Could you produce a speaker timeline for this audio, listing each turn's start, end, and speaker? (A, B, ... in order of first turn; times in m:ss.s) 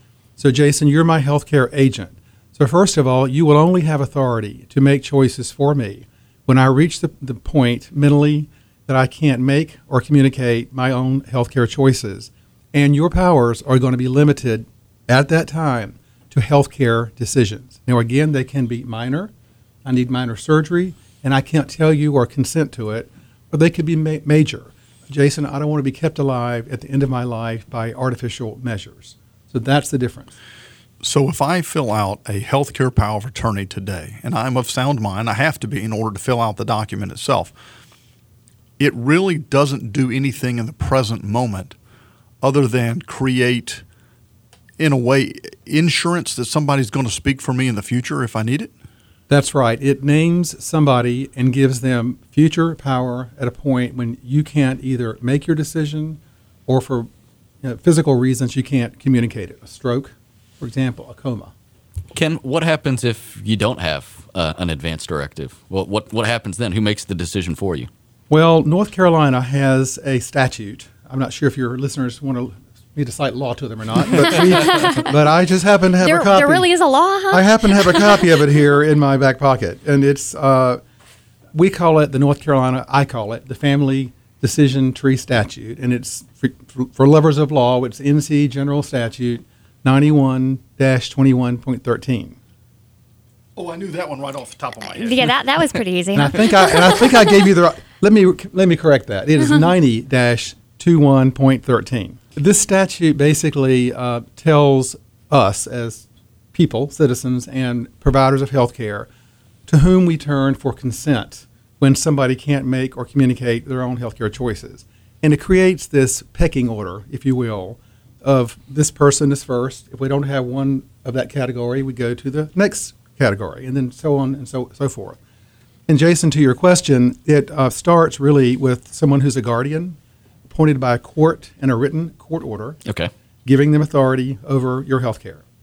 0:00.4-0:19.3 A
0:19.8-0:30.3 A
0:31.0-0:37.5 B
0:38.8-0:41.8 B
0:42.4-0:43.8 B
0:44.8-0:48.7 B
0:49.3-0:57.1 A
0:57.6-1:01.5 A
1:02.1-1:07.9 C
1:08.3-1:16.7 A
1:14.4-1:15.0 D
1:16.0-1:18.2 D
1:17.3-1:20.8 A
1:21.5-1:32.4 A
1:33.6-1:35.3 B
1:34.9-1:37.0 D
1:36.2-1:49.1 A
1:49.7-2:05.2 A
2:05.9-2:10.0 A
2:10.5-2:12.8 A
2:12.9-2:13.1 C
2:13.4-2:15.4 A